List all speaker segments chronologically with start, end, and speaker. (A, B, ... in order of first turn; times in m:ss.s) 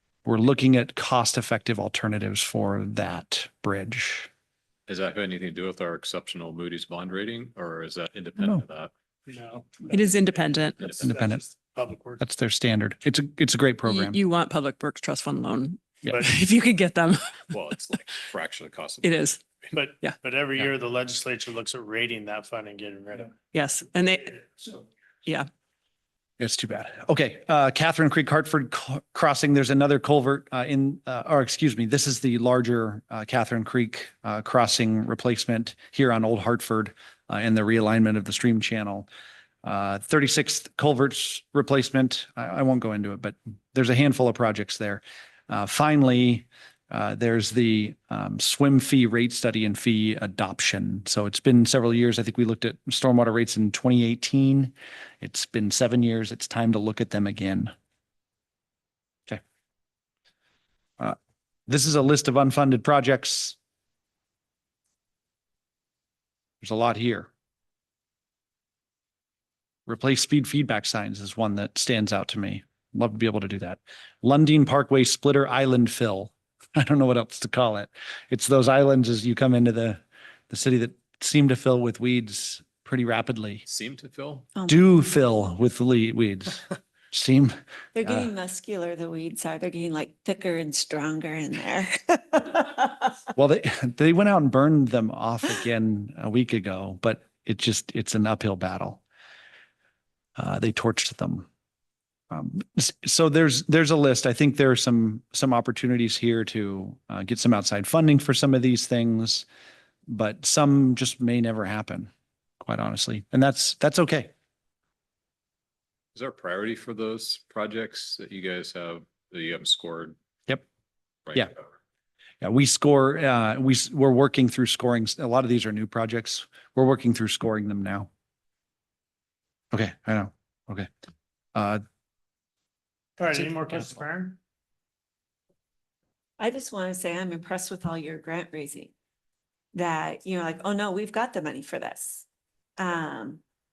0:00.2-0:04.3 A
0:04.9-0:08.9 B
0:09.3-0:10.4 C
0:10.0-0:10.9 D
0:11.0-0:12.2 C
0:11.0-0:11.4 A
0:12.2-0:14.2 A
0:13.8-0:17.1 D
0:17.5-0:19.3 B
0:19.0-0:19.4 D
0:19.7-0:23.5 C
0:23.5-0:24.4 D
0:26.4-0:39.1 A
0:39.6-0:57.7 A
1:01.7-1:03.6 A
1:06.6-1:07.3 A
1:09.9-1:23.6 A
1:23.6-1:24.5 B
1:24.7-1:27.5 A
1:27.9-1:33.0 E
1:33.3-1:39.0 A
1:40.4-1:41.5 A
1:42.3-1:49.5 A
1:50.1-1:52.1 A
1:52.6-1:54.3 A
1:56.1-2:00.1 B
2:01.2-2:01.6 B
2:02.4-2:08.1 A
2:09.7-2:10.9 A
2:11.5-2:11.8 A
2:13.2-2:14.4 C
2:16.4-2:18.9 E
2:19.7-2:22.2 E
2:22.8-2:23.4 E